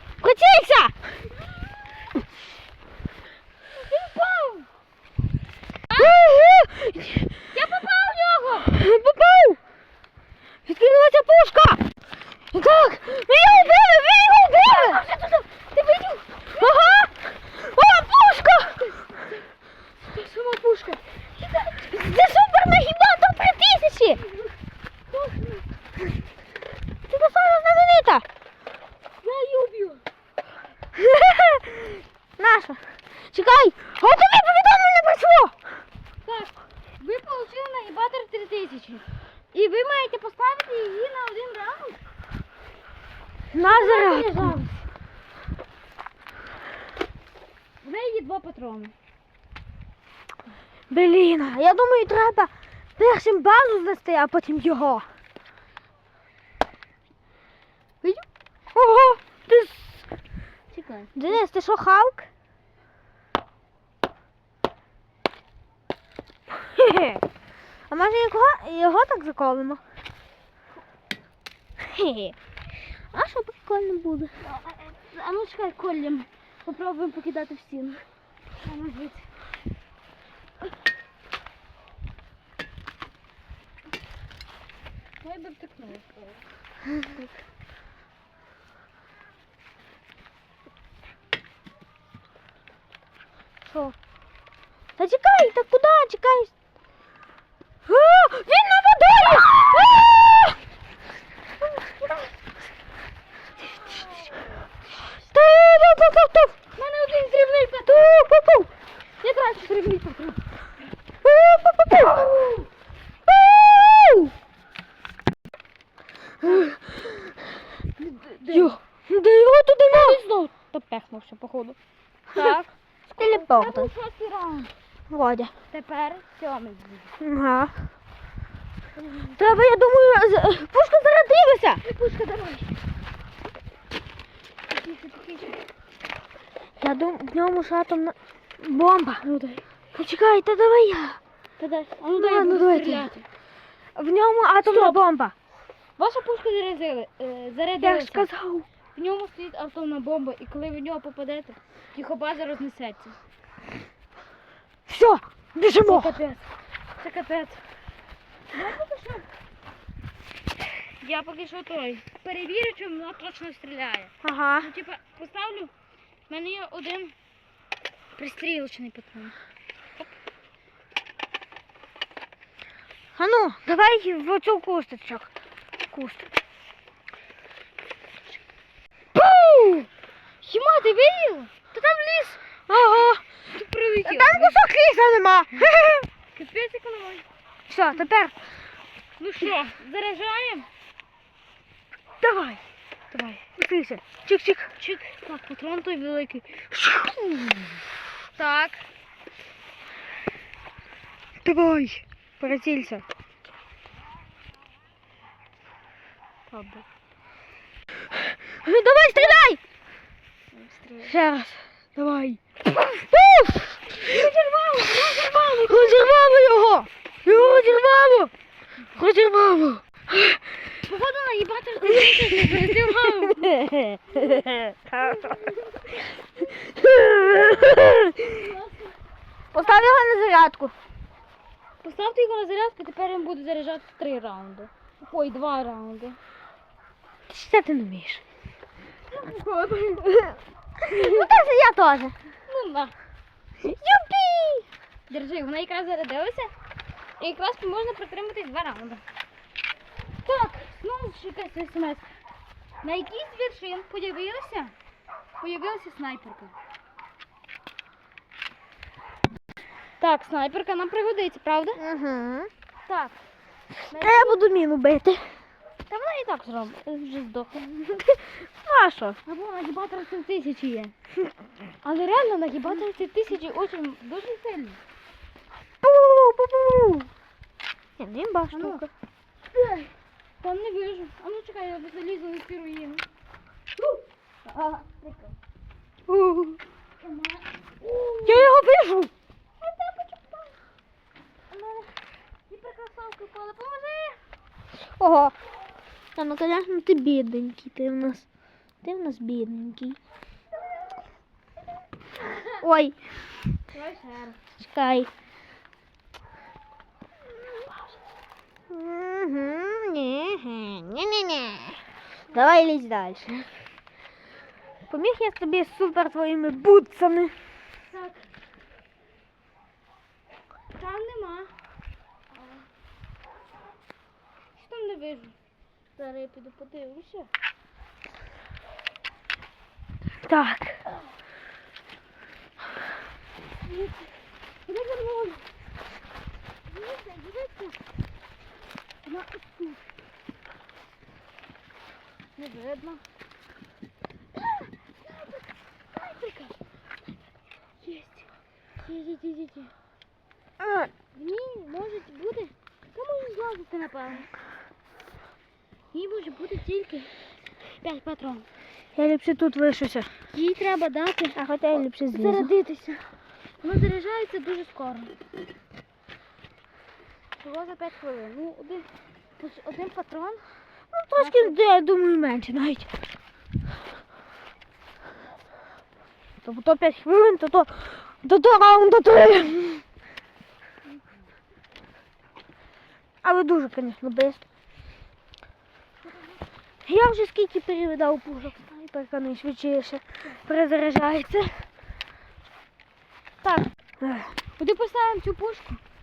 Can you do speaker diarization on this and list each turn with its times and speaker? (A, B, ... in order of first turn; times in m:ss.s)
0:00.2-0:00.9 A
0:03.7-0:04.7 B
0:06.0-0:07.4 A
0:07.5-0:08.7 B
0:08.7-0:09.6 A
0:10.6-0:11.8 A
0:12.5-0:15.0 A
0:14.5-0:16.8 B
0:16.5-0:18.8 A
0:18.7-0:19.4 B
0:20.1-0:21.9 B
0:21.8-0:24.2 A
0:25.1-0:25.6 B
0:27.1-0:28.2 A
0:29.2-0:30.0 B
0:31.0-0:35.6 A
0:36.2-0:42.0 B
0:43.5-0:44.6 A
0:43.6-0:44.8 B
0:47.8-0:48.9 B
0:50.9-0:55.0 A
0:58.7-1:00.0 A
1:00.7-1:01.4 B
1:01.2-1:02.3 A
1:06.5-1:07.2 A
1:07.9-1:09.8 A
1:11.8-1:12.4 A
1:13.1-1:14.3 A
1:14.4-1:18.0 B
1:18.6-1:19.3 B
1:25.2-1:26.4 B
1:33.6-1:34.0 A
1:35.0-1:36.5 A
1:37.9-1:40.6 A
1:43.7-1:44.5 B
1:45.3-1:46.5 A
1:46.7-1:48.3 B
1:47.8-1:48.7 A
1:49.2-1:50.4 B
1:51.2-1:52.3 A
1:52.0-1:52.7 B
1:53.3-1:54.3 A
1:56.4-1:56.8 A
1:58.0-1:58.8 B
1:58.5-2:00.2 A
1:59.9-2:01.8 B
2:02.3-2:04.7 B
2:03.1-2:03.9 A
2:05.1-2:05.5 A
2:05.7-2:07.1 B
2:07.2-2:07.8 A
2:09.0-2:09.6 B
2:09.4-2:11.8 A
2:11.8-2:12.8 B
2:14.7-2:15.6 B
2:16.8-2:19.3 A
2:19.2-2:19.6 B
2:19.9-2:21.2 A
2:21.6-2:23.2 B
2:22.1-2:23.1 A
2:23.9-2:25.3 A
2:24.6-2:25.0 B
2:26.0-2:28.3 B
2:27.8-2:28.7 A
2:28.9-2:33.2 B
2:34.9-2:36.2 A
2:35.8-2:36.5 B
2:37.0-2:37.6 B
2:38.5-2:39.3 B
2:41.0-2:45.7 B
2:44.2-2:44.7 A
2:46.3-2:47.1 B
2:48.2-2:49.3 B
2:53.2-2:56.3 A
2:59.2-2:59.8 A
3:00.4-3:02.4 B
3:02.7-3:03.2 A
3:03.5-3:04.6 B
3:04.0-3:06.1 A
3:06.3-3:07.2 B
3:07.7-3:08.3 A
3:09.2-3:10.7 B
3:12.2-3:12.6 A
3:13.1-3:13.5 B
3:13.6-3:14.7 A
3:14.8-3:16.7 B
3:16.7-3:17.8 A
3:18.3-3:18.8 B
3:21.4-3:23.0 A
3:26.5-3:26.8 B
3:28.4-3:29.6 A
3:30.6-3:31.1 B
3:31.0-3:34.2 A
3:33.9-3:36.2 B
3:35.3-3:38.3 A
3:37.2-3:37.9 B
3:39.0-3:40.4 A
3:40.7-3:43.6 B
3:41.8-3:45.3 A
3:44.1-3:44.4 B
3:45.0-3:46.5 B
3:46.6-3:48.3 A
3:48.1-3:48.9 B
3:49.5-3:50.7 A
3:49.6-3:49.9 B
3:51.8-3:56.2 B
3:57.3-3:58.2 A
3:59.1-4:01.3 B
4:00.1-4:02.2 A
4:02.4-4:02.9 B
4:03.6-4:04.7 A
4:05.1-4:06.5 B
4:07.2-4:09.0 B
4:10.2-4:12.1 B
4:12.8-4:14.7 B
4:15.4-4:16.5 B
4:20.0-4:21.8 B
4:21.8-4:22.5 A
4:22.8-4:23.2 B
4:23.9-4:24.4 B
4:23.9-4:25.4 A
4:25.9-4:28.1 B
4:28.6-4:29.2 A
4:29.2-4:30.9 B
4:31.8-4:34.8 B
4:35.8-4:37.1 A
4:38.0-4:38.9 A
4:38.5-4:38.8 B
4:39.5-4:39.9 B
4:40.4-4:43.0 B
4:43.8-4:45.3 B
4:46.1-4:46.6 A
4:47.0-4:48.6 B
4:48.2-4:49.1 A
4:49.6-4:50.5 B
4:51.5-4:51.9 B
4:52.5-4:54.2 B
4:54.8-4:55.3 A
4:56.2-4:58.2 A
4:58.8-5:00.0 A
5:02.3-5:02.6 B
5:02.6-5:03.0 A
5:03.7-5:04.4 B
5:04.6-5:05.1 A
5:08.7-5:11.8 A
5:12.3-5:13.5 A
5:14.9-5:17.3 A
5:17.8-5:18.3 B
5:20.7-5:21.5 B
5:24.5-5:25.3 B
5:26.0-5:27.3 B
5:30.2-5:30.8 A
5:33.6-5:34.1 B
5:34.6-5:35.4 B
5:36.7-5:37.8 B
5:39.0-5:39.8 B
5:42.4-5:43.0 B
5:44.4-5:46.6 B
5:47.8-5:48.2 B
5:48.8-5:49.7 B
5:50.6-5:50.9 A
5:51.1-5:54.3 B
5:55.9-5:57.1 B
5:57.8-5:58.5 B
5:58.9-6:00.1 A
6:00.3-6:03.1 B
6:01.4-6:02.5 A
6:03.6-6:05.1 B
6:07.4-6:10.4 B
6:10.9-6:12.9 A
6:11.2-6:11.6 B
6:16.4-6:19.8 A
6:23.2-6:24.4 A
6:26.1-6:26.4 B
6:26.8-6:31.6 A
6:34.0-6:34.3 A
6:34.6-6:35.8 B